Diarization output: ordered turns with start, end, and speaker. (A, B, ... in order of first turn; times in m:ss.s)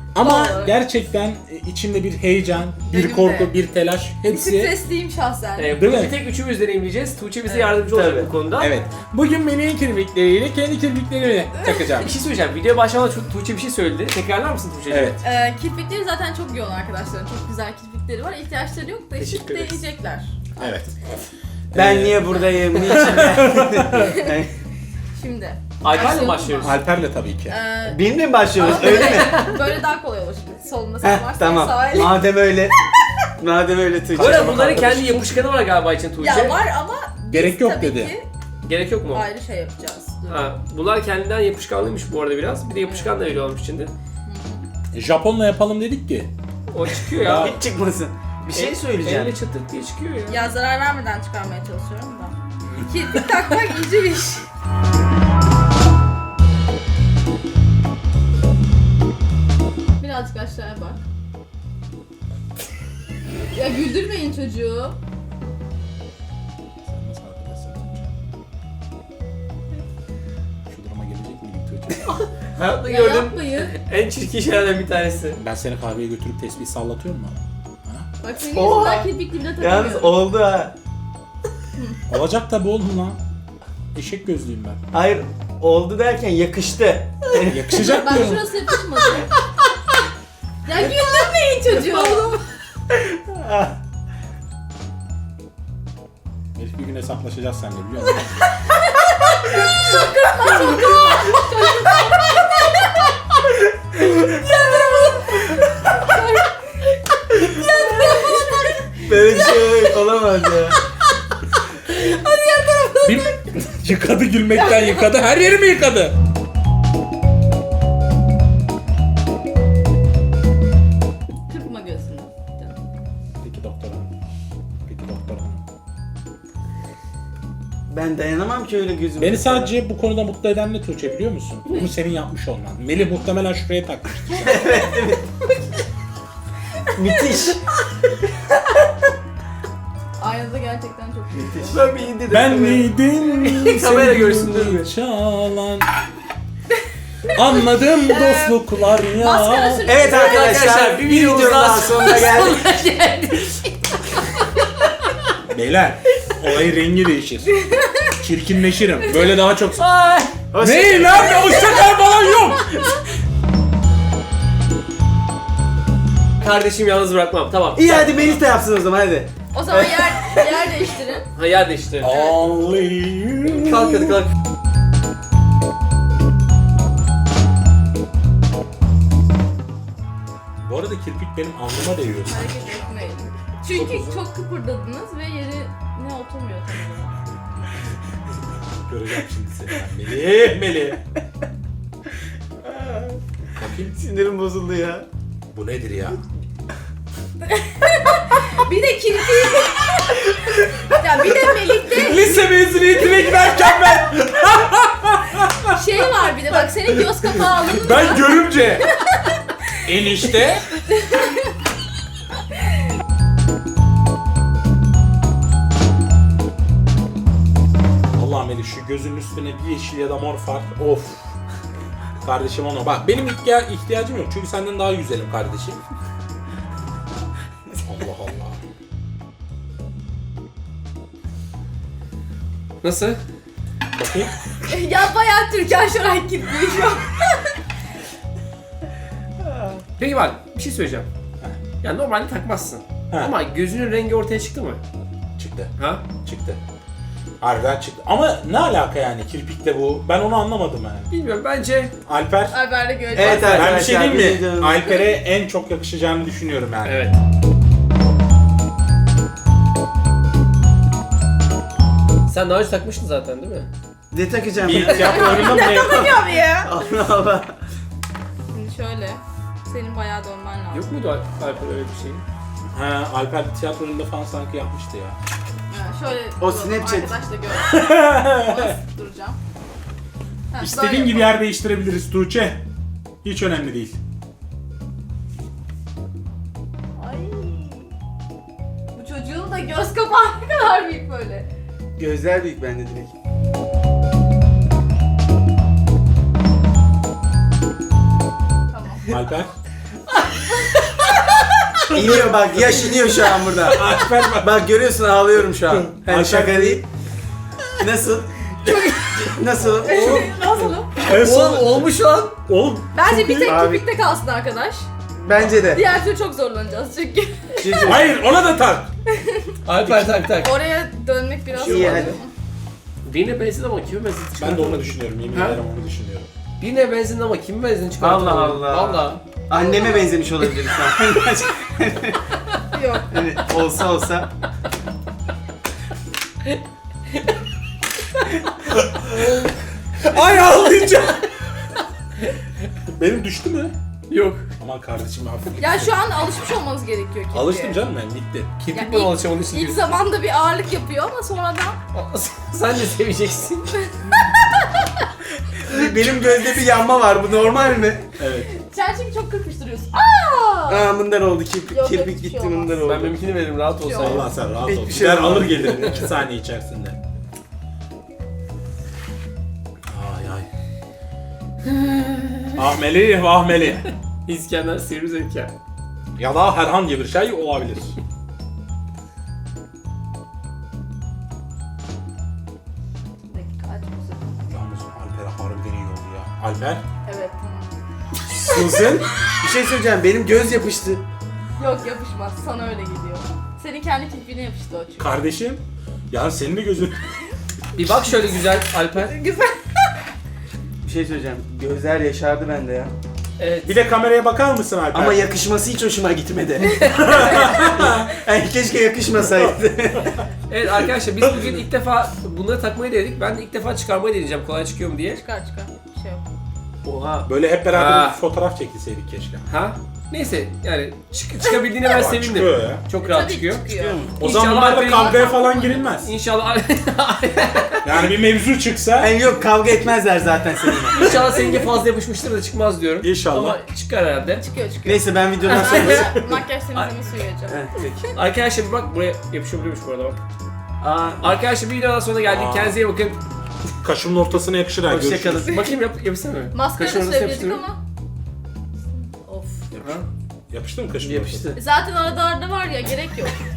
0:00.1-0:04.8 A
0:00.2-0:00.8 B
0:02.8-0:03.5 B
0:04.3-0:05.7 B
0:05.6-0:08.7 C
0:05.7-0:06.2 A
0:07.5-0:07.8 B
0:07.9-0:08.3 D
0:08.6-0:12.1 A
0:08.6-0:09.0 B
0:12.0-0:15.2 C
0:14.9-0:15.2 A
0:15.2-0:20.3 B
0:19.2-0:19.8 C
0:20.6-0:20.9 A
0:21.7-0:24.1 A
0:21.7-0:24.5 D
0:22.9-0:23.3 B
0:23.9-0:24.3 B
0:25.2-0:26.8 B
0:25.8-0:26.8 C
0:26.6-0:27.6 A
0:27.5-0:32.2 B
0:27.9-0:29.4 D
0:28.6-0:29.6 C
0:31.0-0:32.7 D
0:33.4-0:34.8 D
0:34.2-0:35.4 A
0:34.2-0:36.6 C
0:36.2-0:38.3 B
0:37.3-0:38.2 A
0:38.6-0:39.3 C
0:39.1-0:40.6 B
0:40.3-0:43.9 C
0:42.8-0:43.1 B
0:44.3-0:44.6 B
0:44.9-0:46.3 A
0:46.7-0:47.6 C
0:47.2-0:47.6 A
0:47.2-0:49.4 D
0:48.5-0:50.5 C
0:50.3-0:54.4 B
1:00.0-1:01.0 B
1:03.5-1:05.0 B
1:06.8-1:08.1 A
1:10.7-1:12.2 A
1:12.5-1:15.4 C
1:12.8-1:13.8 B
1:15.4-1:18.1 A
1:18.2-1:20.2 B
1:18.5-1:20.8 D
1:22.1-1:23.2 A
1:23.9-1:24.8 A
1:24.9-1:27.8 D
1:27.5-1:28.5 A
1:27.7-1:29.4 B
1:30.6-1:32.4 B
1:32.9-1:33.8 D
1:36.6-1:38.4 A
1:39.0-1:42.7 B
1:44.0-1:49.8 B
1:49.0-1:50.8 D
1:51.8-1:53.5 B
1:53.0-1:56.2 A
1:54.5-1:55.1 B
2:01.5-2:02.8 B
2:03.4-2:04.1 A
2:04.9-2:05.7 A
2:07.9-2:09.7 D
2:09.2-2:14.7 A
2:14.4-2:15.3 D
2:14.5-2:14.8 B
2:17.0-2:17.6 D
2:20.2-2:22.1 B
2:21.3-2:22.9 D
2:22.3-2:25.9 A
2:23.5-2:24.9 C
2:27.3-2:30.6 B
2:27.3-2:30.0 A
2:29.8-2:32.6 D
2:30.1-2:35.1 C
2:35.4-2:37.6 A
2:37.5-2:38.2 B
2:38.2-2:39.8 A
2:39.8-2:40.4 C
2:40.5-2:41.4 D
2:40.6-2:42.8 A
2:41.4-2:42.8 B
2:46.4-2:48.3 C
2:47.7-2:50.7 D
2:49.5-2:51.3 B
2:51.4-2:52.3 C
2:52.0-2:54.1 A
2:53.5-2:54.3 C
3:00.6-3:02.8 A
3:02.3-3:07.1 B
3:03.7-3:04.2 A
3:07.1-3:07.9 A
3:08.7-3:11.0 A
3:12.6-3:13.2 D
3:13.6-3:14.0 A
3:13.9-3:15.1 D
3:15.5-3:16.2 A
3:17.4-3:22.5 B
3:21.9-3:25.8 A
3:25.7-3:29.4 B
3:27.6-3:28.9 A
3:29.8-3:30.7 A
3:30.9-3:31.5 B
3:38.1-3:41.4 A
3:42.2-3:45.8 A
3:47.8-3:48.6 A
3:52.8-3:53.2 C
3:54.0-3:54.3 A
3:54.6-3:57.6 B
4:00.0-4:01.1 C
4:01.8-4:04.8 C
4:05.4-4:06.6 A
4:05.8-4:06.0 C
4:07.4-4:11.1 A
4:11.1-4:11.9 C
4:12.1-4:12.6 A
4:12.5-4:13.7 B
4:13.1-4:14.9 D
4:13.2-4:13.8 C
4:13.2-4:17.0 A
4:16.8-4:17.2 C
4:22.3-4:23.7 C
4:24.1-4:27.5 D
4:24.6-4:26.2 A
4:24.7-4:25.2 C
4:24.9-4:26.7 B
4:28.5-4:30.9 B
4:30.7-4:32.2 C
4:32.7-4:35.2 A
4:35.7-4:39.4 B
4:36.4-4:37.2 D
4:37.5-4:38.8 A
4:40.5-4:41.4 B
4:40.6-4:42.6 A
4:43.2-4:44.0 A
4:47.0-4:47.9 B
4:48.9-4:51.5 B
4:52.0-4:53.1 D
4:58.7-4:59.1 B
4:59.1-4:59.5 A
5:01.9-5:06.8 D
5:01.9-5:02.3 A
5:03.6-5:04.6 A
5:05.5-5:06.8 A
5:07.8-5:08.5 D
5:08.6-5:11.0 B
5:09.2-5:10.3 D
5:09.8-5:12.4 C
5:11.0-5:11.9 A
5:12.4-5:13.7 A
5:13.0-5:14.9 B
5:13.4-5:13.8 D
5:15.2-5:15.8 D
5:15.7-5:18.0 B
5:17.6-5:18.1 D
5:17.8-5:18.9 A
5:19.1-5:19.5 B
5:19.7-5:20.6 C
5:19.8-5:20.2 A
5:20.4-5:22.3 B
5:21.5-5:22.2 C
5:21.6-5:22.2 D
5:23.0-5:25.6 C
5:24.4-5:26.3 A
5:26.6-5:29.2 C
5:28.0-5:32.3 D
5:29.5-5:30.3 B
5:32.7-5:33.2 B
5:33.1-5:34.3 D
5:38.9-5:39.5 C
5:40.0-5:41.2 C
5:40.1-5:40.4 A
5:42.9-5:43.7 A
5:44.1-5:44.5 C
5:44.6-5:46.1 A
5:45.6-5:47.8 B
5:47.3-5:48.6 A
5:48.6-5:50.0 C
5:48.7-5:51.8 B
5:51.9-5:53.9 C
5:53.8-5:54.2 B
5:55.6-5:58.2 D
5:55.7-5:56.0 A
5:58.2-5:58.5 A
5:58.5-6:00.9 B
6:00.7-6:03.2 D
6:01.7-6:02.8 B
6:02.8-6:04.3 C
6:03.8-6:04.3 B
6:04.0-6:07.0 A
6:04.6-6:05.8 D
6:05.4-6:06.1 C
6:09.9-6:10.5 A
6:11.7-6:12.5 C
6:12.6-6:13.9 A
6:14.2-6:15.5 C
6:16.2-6:18.0 A
6:23.3-6:24.3 B
6:24.5-6:26.8 A
6:27.0-6:27.8 B
6:28.4-6:28.8 B
6:28.5-6:31.0 D
6:31.6-6:35.2 B
6:35.0-6:37.0 A
6:37.8-6:39.2 C
6:39.0-6:39.7 B
6:40.8-6:42.9 D
6:43.4-6:43.8 C
6:43.6-6:45.2 A
6:44.9-6:50.3 D
6:46.7-6:47.3 B
6:47.0-6:47.5 C
6:47.1-6:48.1 A
6:50.5-6:55.2 C
6:55.2-6:56.2 B
6:56.8-6:58.2 C
6:57.2-6:59.5 A
6:59.5-7:08.1 C
7:01.8-7:02.8 A
7:03.0-7:04.1 B
7:03.7-7:04.1 D
7:04.2-7:06.1 A
7:04.8-7:06.0 B
7:07.8-7:09.2 A
7:09.0-7:11.2 D
7:10.9-7:14.4 C
7:11.1-7:11.6 B
7:13.0-7:13.6 A
7:14.4-7:17.7 B
7:14.8-7:16.2 D
7:15.5-7:16.9 C
7:17.5-7:18.1 D
7:18.1-7:20.2 C
7:20.8-7:21.3 D
7:21.2-7:23.2 C
7:22.2-7:22.8 A
7:23.8-7:25.5 A
7:24.8-7:25.7 D
7:25.4-7:27.7 C
7:26.5-7:27.8 B
7:29.0-7:29.7 B
7:29.7-7:30.1 C
7:30.5-7:31.6 A
7:31.0-7:31.6 D
7:31.6-7:33.4 B